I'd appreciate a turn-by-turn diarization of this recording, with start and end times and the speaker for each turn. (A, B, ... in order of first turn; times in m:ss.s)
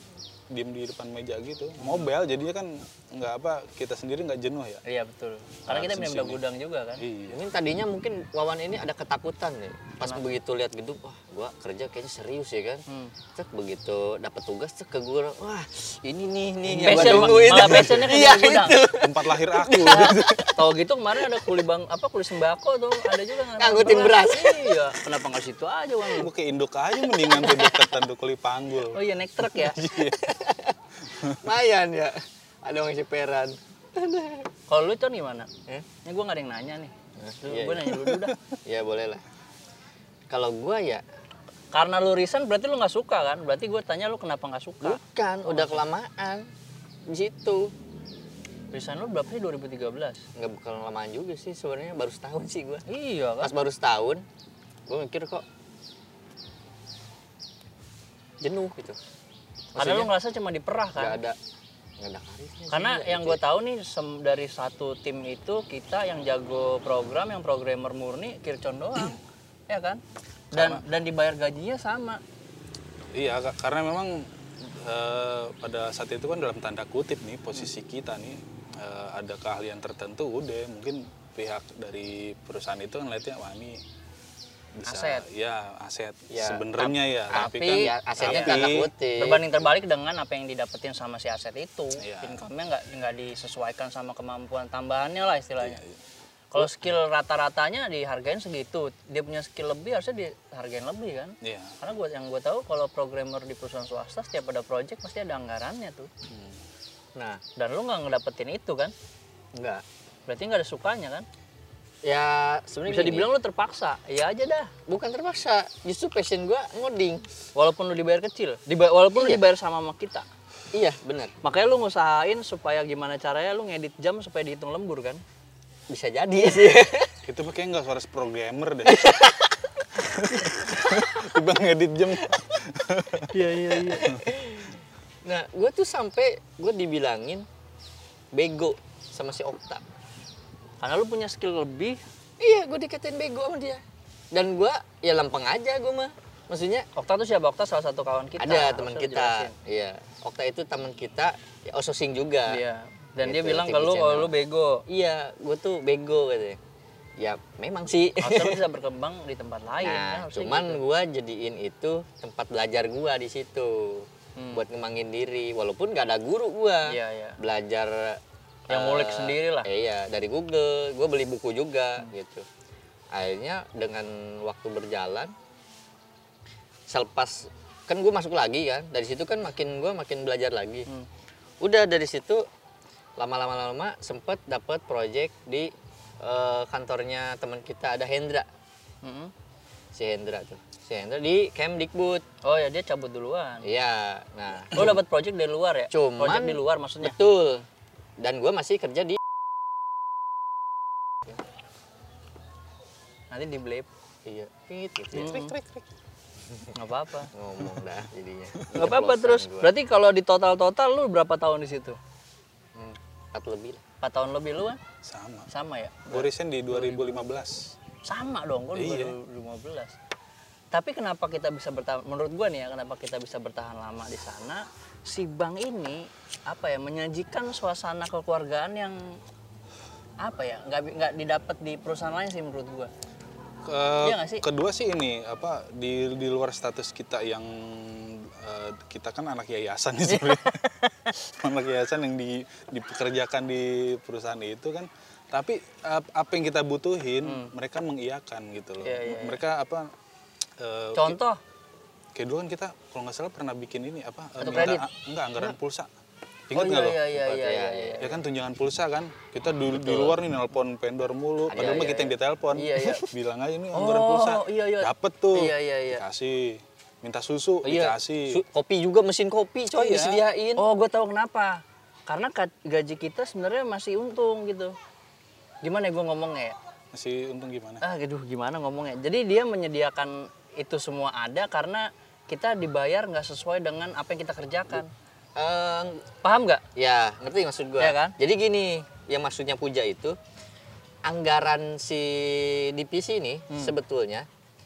0:00.5-0:04.8 A
0:01.8-0:02.1 B
0:04.8-0:07.0 B
0:05.7-0:06.4 A
0:07.0-0:07.4 A
0:07.3-0:12.8 C
0:13.3-0:20.5 C
0:16.7-0:18.8 B
0:16.8-0:18.0 A
0:19.0-0:20.5 A
0:19.8-0:26.3 B
0:23.5-0:24.9 C
0:26.1-0:30.3 A
0:27.1-0:28.0 C
0:28.9-0:29.8 B
0:29.9-0:30.7 C
0:31.1-0:31.4 A
0:31.4-0:34.4 C
0:34.7-0:35.5 B
0:36.0-0:38.3 B
0:37.2-0:38.0 C
0:38.0-0:38.3 A
0:38.7-0:39.2 C
0:40.3-0:41.0 C
0:41.7-0:45.8 B
0:44.8-0:46.5 C
0:47.1-0:47.7 C
0:48.7-0:50.2 B
0:50.4-0:52.8 C
0:52.9-0:53.5 B
0:53.4-0:54.2 C
0:54.9-0:55.4 C
0:58.4-0:59.0 C
0:59.7-1:00.1 C
0:59.8-1:01.2 B
1:01.0-1:01.4 C
1:02.0-1:03.4 C
1:02.7-1:10.0 B
1:10.5-1:10.8 A
1:10.5-1:12.2 B
1:13.1-1:23.8 A
1:24.8-1:28.9 A
1:24.8-1:25.2 B
1:26.3-1:29.7 C
1:27.4-1:35.8 B
1:32.0-1:32.4 A
1:35.6-1:36.0 A
1:36.5-1:46.1 B
1:41.4-1:41.8 A
1:46.3-1:46.6 A
1:47.2-1:47.4 C
1:47.6-1:48.9 B
1:49.5-1:49.8 C
1:50.3-1:51.3 B
1:52.0-1:53.3 C
1:52.8-1:54.7 B
1:54.9-1:57.3 C
1:57.6-2:00.3 B
1:59.2-1:59.4 C
2:00.7-2:01.3 C
2:01.4-2:05.2 B
2:05.9-2:07.1 C
2:07.2-2:09.1 A
2:08.8-2:09.9 C
2:10.0-2:13.4 A
2:10.7-2:11.1 C
2:13.3-2:14.1 B
2:13.8-2:17.4 C
2:18.3-2:19.8 C
2:20.8-2:22.0 B
2:22.4-2:23.8 C
2:24.3-2:26.9 C
2:27.0-2:29.5 B
2:28.4-2:32.6 C
2:32.5-2:34.8 B
2:33.2-2:34.3 C
2:34.9-2:36.6 C
2:37.2-2:38.6 C
2:38.2-2:40.8 B
2:39.8-2:52.4 C
2:44.4-2:44.6 B
2:46.9-2:47.4 B
2:48.7-2:49.7 B
2:53.1-2:55.3 C
2:56.9-3:00.9 C
3:01.6-3:02.4 C
3:03.2-3:05.7 C
3:06.2-3:08.5 C
3:09.0-3:09.3 B
3:09.9-3:12.2 C
3:12.4-3:13.6 B
3:13.6-3:15.0 C
3:14.7-3:17.2 B
3:15.9-3:17.6 C
3:18.2-3:19.2 C
3:23.3-3:23.9 B
3:24.2-3:25.3 C
3:25.1-3:25.6 B
3:25.1-3:25.8 A
3:26.7-3:27.3 B
3:27.3-3:29.7 C
3:28.6-3:29.0 A
3:28.7-3:32.0 B
3:32.7-3:33.8 C
3:34.0-3:34.8 B
3:35.0-3:35.5 A
3:35.5-3:37.2 B
3:36.1-3:37.7 A
3:38.0-3:39.9 B
3:38.7-3:39.1 A
3:40.7-3:49.2 B
3:50.2-3:52.9 B
3:53.6-4:00.6 A
3:54.0-3:54.4 B
4:00.1-4:01.1 B
4:01.1-4:09.9 A
4:07.2-4:07.5 B
4:08.8-4:09.4 B
4:10.6-4:11.2 A
4:10.9-4:11.4 B
4:12.1-4:15.9 A
4:14.4-4:14.9 B
4:16.5-4:17.1 A
4:16.5-4:18.2 B
4:17.1-4:18.0 C
4:18.0-4:28.4 A
4:19.8-4:20.1 B
4:21.5-4:22.1 C
4:22.5-4:23.1 B
4:22.8-4:23.1 C
4:23.7-4:26.0 B
4:27.6-4:30.6 C
4:29.7-4:30.2 A
4:30.6-4:34.7 B
4:35.6-4:36.6 B
4:36.9-4:37.8 A
4:37.8-4:44.9 B
4:45.4-4:46.0 C
4:46.2-4:46.6 B
4:46.8-4:50.2 C
4:47.8-4:48.2 B
4:51.0-4:54.3 C
4:53.5-4:53.8 B